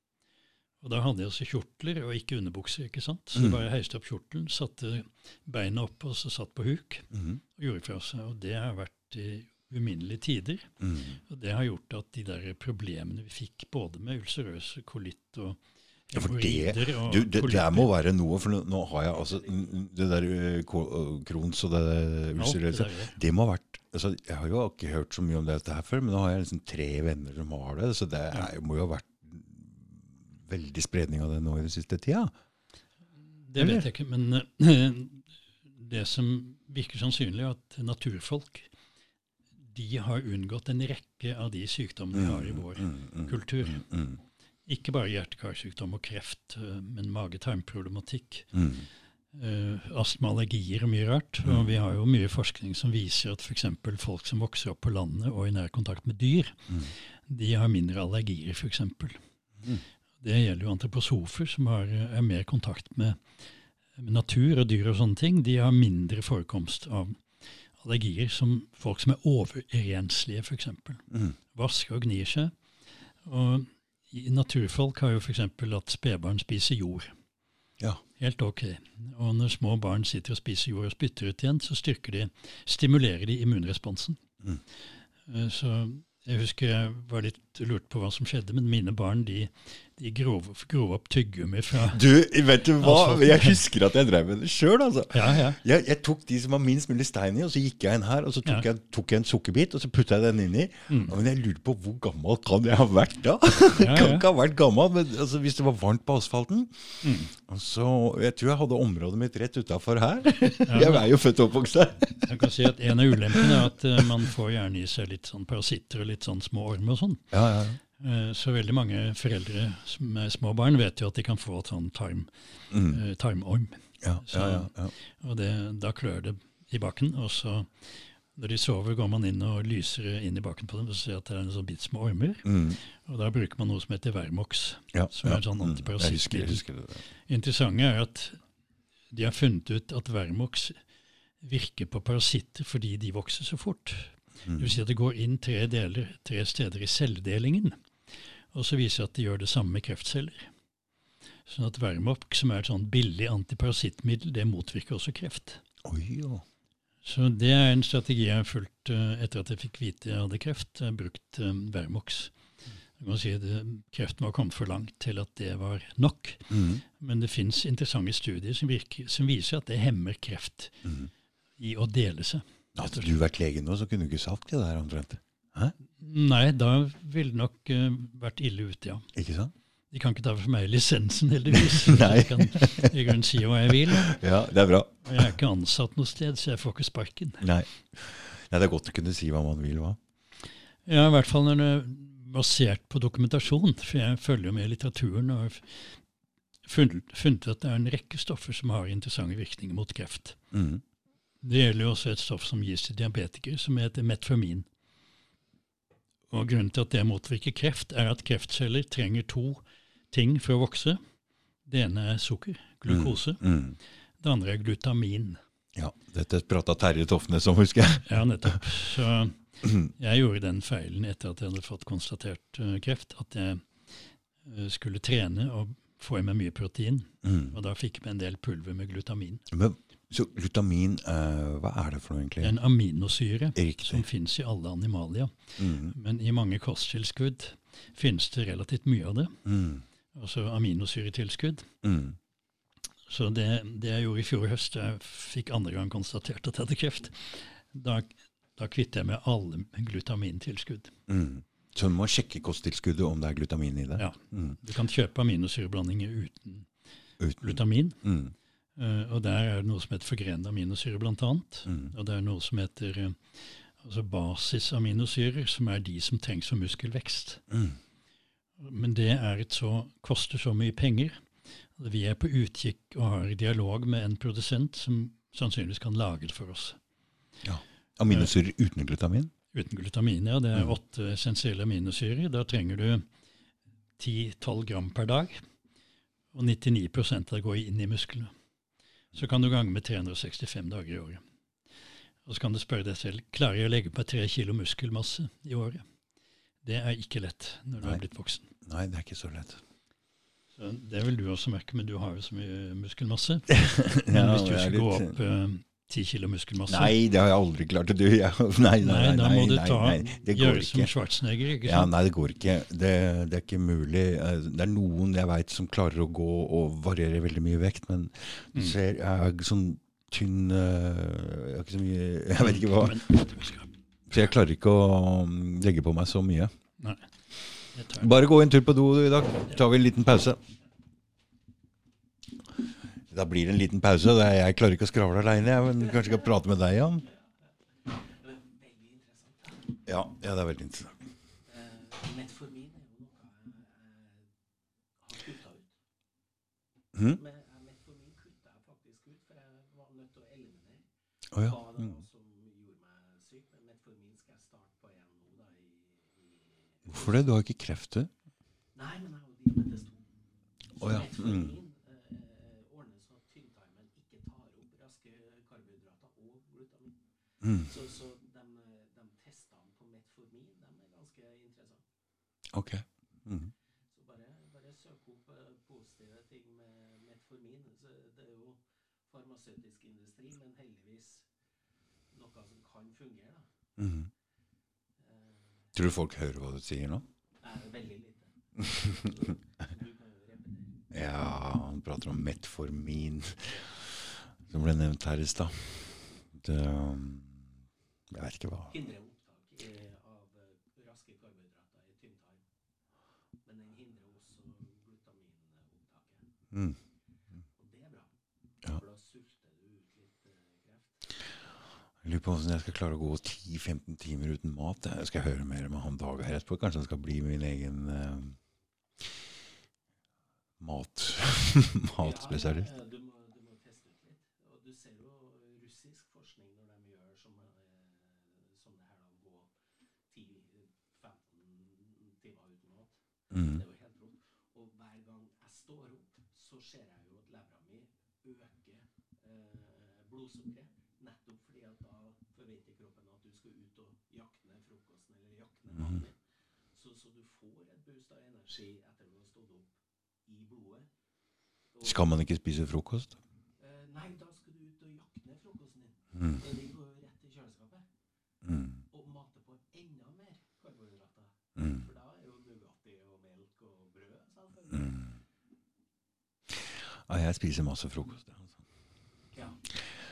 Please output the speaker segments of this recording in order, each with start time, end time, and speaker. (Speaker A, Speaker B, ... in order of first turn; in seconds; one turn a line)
Speaker A: 0.8-10.7
Speaker B: 3.3-3.6
Speaker B: 7.1-7.4
Speaker B: 10.8-11.2
Speaker A: 11.3-17.9
Speaker B: 16.1-32.3
Speaker A: 22.4-23.2
Speaker A: 33.4-38.7
Speaker B: 33.6-33.9
Speaker A: 39.7-43.8
Speaker B: 42.1-44.2
Speaker A: 44.7-48.5
Speaker B: 48.5-48.9
Speaker A: 49.3-59.2
Speaker A: 60.2-63.2
Speaker A: 64.0-67.2
Speaker A: 67.8-72.5
Speaker B: 71.1-71.4
Speaker A: 73.2-77.1
Speaker A: 78.2-84.2
Speaker A: 85.3-92.0
Speaker B: 91.9-114.1
Speaker A: 92.8-93.6
Speaker A: 95.1-95.6
Speaker A: 100.9-101.2
Speaker A: 103.7-104.3
Speaker A: 107.0-107.3
Speaker A: 110.7-111.1
Speaker A: 112.2-117.3
Speaker B: 117.3-117.8
Speaker A: 118.0-136.6
Speaker B: 122.7-123.0
Speaker B: 124.0-124.9
Speaker B: 132.4-132.8
Speaker B: 134.9-137.0
Speaker A: 137.3-138.4
Speaker A: 139.1-140.8
Speaker A: 141.4-147.8
Speaker A: 148.5-150.5
Speaker A: 151.5-155.6
Speaker B: 155.8-156.4
Speaker A: 157.0-162.3
Speaker A: 163.0-170.8
Speaker B: 166.5-166.8
Speaker B: 170.8-171.1
Speaker A: 171.6-173.1
Speaker B: 172.8-175.8
Speaker A: 176.0-179.1
Speaker B: 179.1-179.5
Speaker A: 179.9-184.2
Speaker B: 181.5-183.0
Speaker B: 183.7-185.3
Speaker A: 185.0-187.5
Speaker B: 187.4-190.0
Speaker A: 190.9-196.0
Speaker A: 196.7-200.4
Speaker B: 200.5-200.8
Speaker A: 201.4-204.7
Speaker A: 206.3-211.0
Speaker A: 211.7-213.4
Speaker B: 212.9-213.8
Speaker A: 214.2-215.4
Speaker B: 215.8-218.5
Speaker A: 218.1-223.7
Speaker B: 219.6-219.9
Speaker A: 224.4-229.4
Speaker B: 227.2-227.6
Speaker B: 229.5-232.6
Speaker A: 232.4-239.4
Speaker B: 233.6-234.1
Speaker B: 235.6-235.9
Speaker B: 239.4-239.8
Speaker A: 240.2-241.7
Speaker B: 241.8-242.2
Speaker A: 243.1-250.9
Speaker B: 251.1-254.6
Speaker A: 254.0-256.7
Speaker B: 257.2-258.3
Speaker A: 257.4-258.0
Speaker A: 258.8-267.4
Speaker B: 261.7-261.9
Speaker B: 267.5-267.8
Speaker A: 268.6-271.2
Speaker A: 271.8-276.8
Speaker B: 277.4-279.3
Speaker A: 279.5-283.1
Speaker A: 284.0-285.4
Speaker A: 286.3-288.3
Speaker A: 289.1-291.2
Speaker A: 292.3-295.9
Speaker A: 296.6-298.5
Speaker B: 298.6-299.6
Speaker A: 300.6-307.0
Speaker B: 303.5-305.1
Speaker B: 306.7-310.9
Speaker A: 308.8-311.9
Speaker B: 311.6-323.2
Speaker A: 322.4-323.7
Speaker B: 324.1-326.5
Speaker A: 326.8-327.1
Speaker A: 327.7-328.1
Speaker B: 328.0-330.4
Speaker B: 333.1-337.1
Speaker C: 337.9-339.8
Speaker B: 339.9-341.0
Speaker C: 341.5-344.3
Speaker C: 345.0-345.7
Speaker B: 346.9-347.2
Speaker C: 347.0-357.2
Speaker B: 351.3-352.0
Speaker B: 356.9-358.1
Speaker C: 358.8-360.1
Speaker C: 360.7-371.9
Speaker B: 360.8-361.6
Speaker B: 367.4-367.7
Speaker B: 372.5-373.5
Speaker C: 373.9-381.3
Speaker C: 382.1-383.5
Speaker B: 383.8-384.1
Speaker C: 385.0-385.8
Speaker B: 385.8-387.1
Speaker C: 387.4-390.8
Speaker B: 388.6-389.2
Speaker B: 390.9-397.5
Speaker B: 398.1-398.8
Speaker C: 398.7-402.4
Speaker C: 403.4-406.3
Speaker B: 406.5-406.8
Speaker C: 407.6-408.1
Speaker C: 408.6-411.3
Speaker B: 412.0-418.4
Speaker B: 420.6-422.7
Speaker C: 422.0-429.5
Speaker C: 430.1-446.2
Speaker B: 433.3-433.6
Speaker C: 446.7-449.8
Speaker C: 450.3-450.9
Speaker C: 451.7-452.2
Speaker B: 451.8-453.2
Speaker C: 453.6-457.9
Speaker B: 458.4-458.8
Speaker C: 458.9-465.2
Speaker B: 461.6-461.9
Speaker B: 464.7-465.0
Speaker B: 466.6-468.5
Speaker C: 469.3-469.6